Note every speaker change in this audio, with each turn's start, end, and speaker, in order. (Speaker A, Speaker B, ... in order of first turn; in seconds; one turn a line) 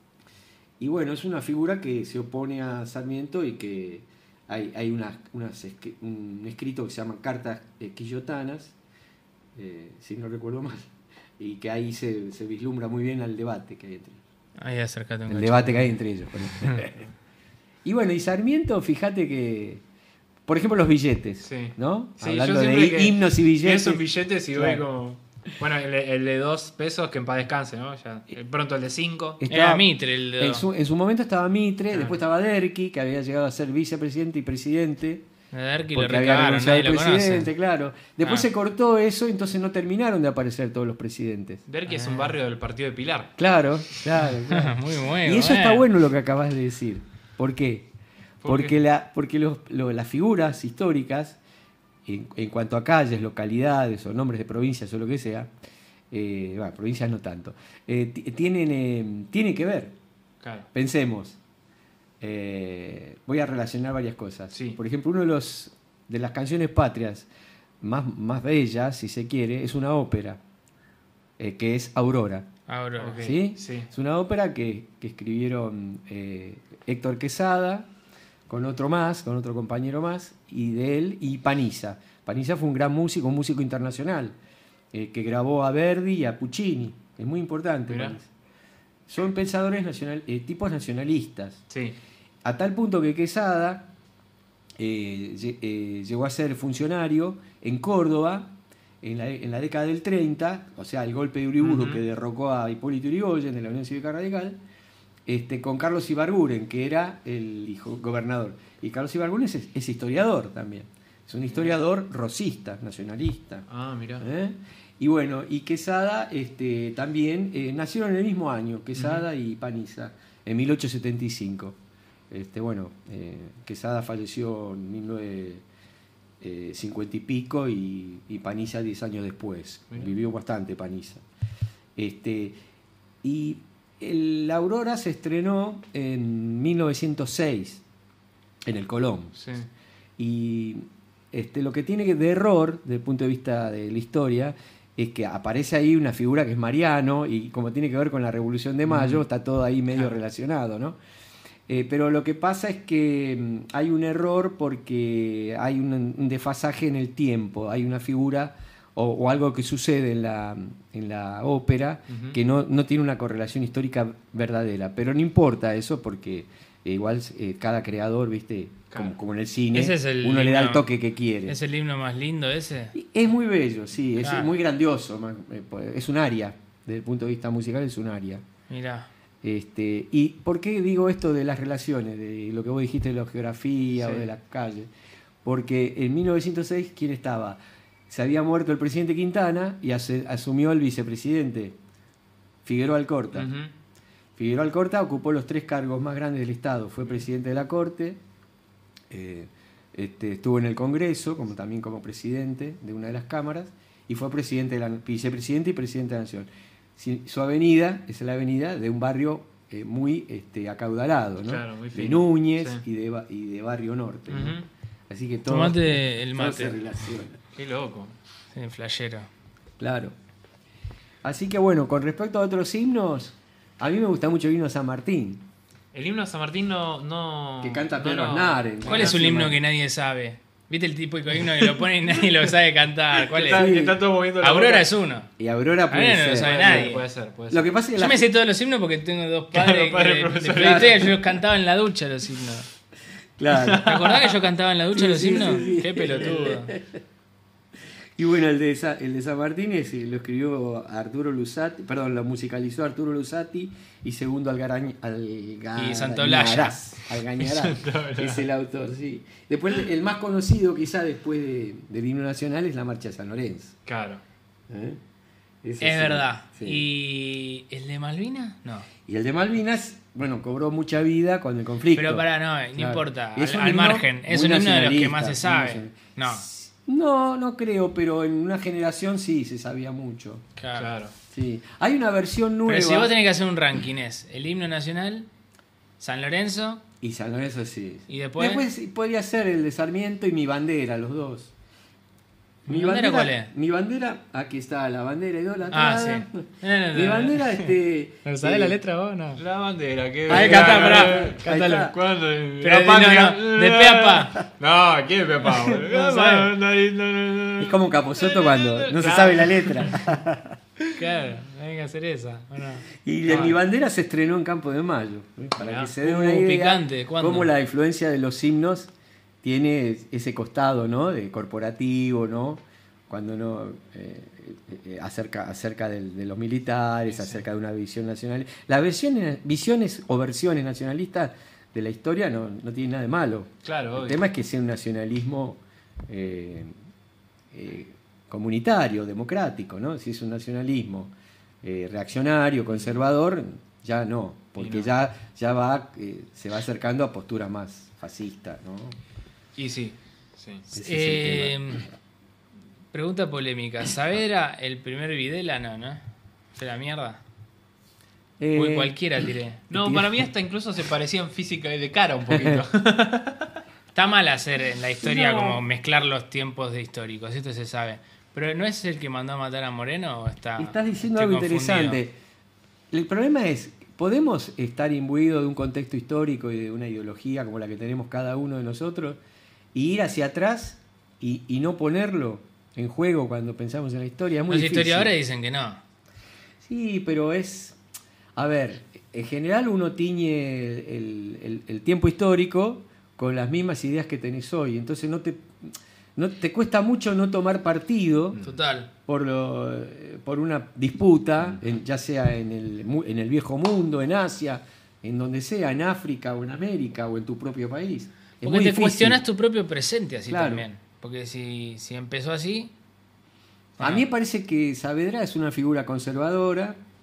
Speaker A: 0.8-8.7
Speaker A: 9.6-14.2
Speaker B: 14.6-15.9
Speaker A: 15.3-17.0
Speaker A: 17.8-19.8
Speaker A: 20.4-24.8
Speaker C: 21.4-29.4
Speaker A: 29.4-35.2
Speaker B: 29.5-30.6
Speaker C: 31.9-32.2
Speaker B: 35.5-37.5
Speaker A: 35.9-41.6
Speaker C: 41.7-43.3
Speaker A: 43.4-47.9
Speaker B: 44.5-45.9
Speaker C: 48.4-48.8
Speaker A: 48.4-51.4
Speaker A: 52.0-55.5
Speaker A: 56.1-59.9
Speaker C: 60.4-60.7
Speaker A: 60.7-61.4
Speaker A: 62.2-67.3
Speaker C: 64.5-64.8
Speaker A: 67.8-70.4
Speaker A: 71.4-72.5
Speaker B: 72.7-73.2
Speaker C: 73.0-73.9
Speaker A: 73.2-77.9
Speaker A: 78.5-84.3
Speaker A: 84.9-88.3
Speaker C: 87.9-88.2
Speaker A: 89.1-91.6
Speaker C: 91.7-92.0
Speaker A: 92.4-93.9
Speaker A: 94.8-104.6
Speaker C: 101.6-102.0
Speaker A: 105.2-113.6
Speaker C: 111.5-111.7
Speaker C: 113.7-114.3
Speaker A: 114.2-121.8
Speaker C: 119.0-119.2
Speaker A: 122.3-125.6
Speaker A: 126.4-131.2
Speaker A: 131.9-132.6
Speaker A: 133.2-137.8
Speaker A: 138.6-139.3
Speaker C: 139.3-139.7
Speaker A: 140.2-151.0
Speaker C: 148.8-149.2
Speaker A: 151.7-171.6
Speaker C: 162.1-162.4
Speaker B: 169.7-170.9
Speaker B: 171.4-172.9
Speaker A: 172.9-178.4
Speaker B: 174.2-174.5
Speaker B: 178.7-179.1
Speaker A: 179.4-184.9
Speaker C: 184.0-184.3
Speaker A: 185.4-191.8
Speaker A: 192.6-193.5
Speaker C: 193.3-193.7
Speaker A: 194.3-198.2
Speaker A: 199.1-214.6
Speaker C: 211.4-212.8
Speaker C: 214.3-214.7
Speaker A: 215.1-217.4
Speaker B: 215.5-216.8
Speaker C: 217.5-218.2
Speaker B: 218.5-219.3
Speaker A: 219.8-220.1
Speaker A: 221.2-225.5
Speaker C: 225.9-229.2
Speaker A: 227.6-229.6
Speaker B: 228.9-233.7
Speaker C: 233.1-234.9
Speaker A: 233.5-234.0
Speaker B: 234.4-235.3
Speaker A: 235.4-236.9
Speaker B: 235.9-237.0
Speaker C: 236.4-237.7
Speaker A: 237.5-238.3
Speaker B: 238.0-242.7
Speaker C: 239.5-241.1
Speaker A: 240.5-241.0
Speaker A: 243.4-243.9
Speaker C: 243.6-244.3
Speaker B: 243.8-246.7
Speaker A: 244.9-247.0
Speaker A: 248.2-263.8
Speaker B: 255.8-256.8
Speaker C: 257.4-258.4
Speaker C: 263.9-264.2
Speaker A: 264.7-265.0
Speaker A: 265.6-266.8
Speaker B: 265.8-268.9
Speaker A: 269.1-280.4
Speaker B: 271.9-276.5
Speaker B: 280.6-280.9
Speaker C: 280.7-281.1
Speaker A: 281.3-283.1
Speaker B: 282.6-285.3
Speaker B: 286.0-286.8
Speaker A: 287.0-291.5
Speaker B: 288.1-288.6
Speaker B: 292.7-293.5
Speaker A: 292.7-298.8
Speaker B: 295.7-297.6
Speaker B: 298.2-299.4
Speaker C: 299.4-310.0
Speaker A: 300.3-301.9
Speaker B: 300.3-301.8
Speaker B: 302.6-304.4
Speaker B: 305.9-306.5
Speaker A: 307.6-310.6
Speaker B: 310.9-312.9
Speaker A: 313.0-318.9
Speaker C: 313.3-313.6
Speaker C: 315.6-315.9
Speaker B: 316.0-317.5
Speaker A: 319.4-336.7
Speaker C: 327.1-327.4
Speaker C: 333.6-334.2
Speaker A: 337.5-349.0
Speaker C: 344.6-344.9
Speaker C: 349.6-350.6
Speaker A: 350.7-351.9
Speaker B: 350.7-351.9
Speaker B: 352.9-356.0
Speaker B: 356.6-357.2
Speaker A: 358.4-359.0
Speaker B: 358.5-359.6
Speaker C: 359.7-363.6
Speaker A: 359.7-360.3
Speaker A: 362.3-362.6
Speaker B: 363.9-372.0
Speaker A: 365.0-365.6
Speaker A: 370.6-372.1
Speaker A: 372.9-379.2
Speaker A: 379.7-385.1
Speaker B: 384.5-385.8
Speaker A: 386.6-387.8
Speaker A: 388.4-398.4
Speaker B: 398.4-398.9
Speaker A: 399.1-409.2
Speaker B: 408.4-412.7
Speaker A: 410.3-410.6
Speaker B: 413.8-414.0
Speaker A: 413.8-416.8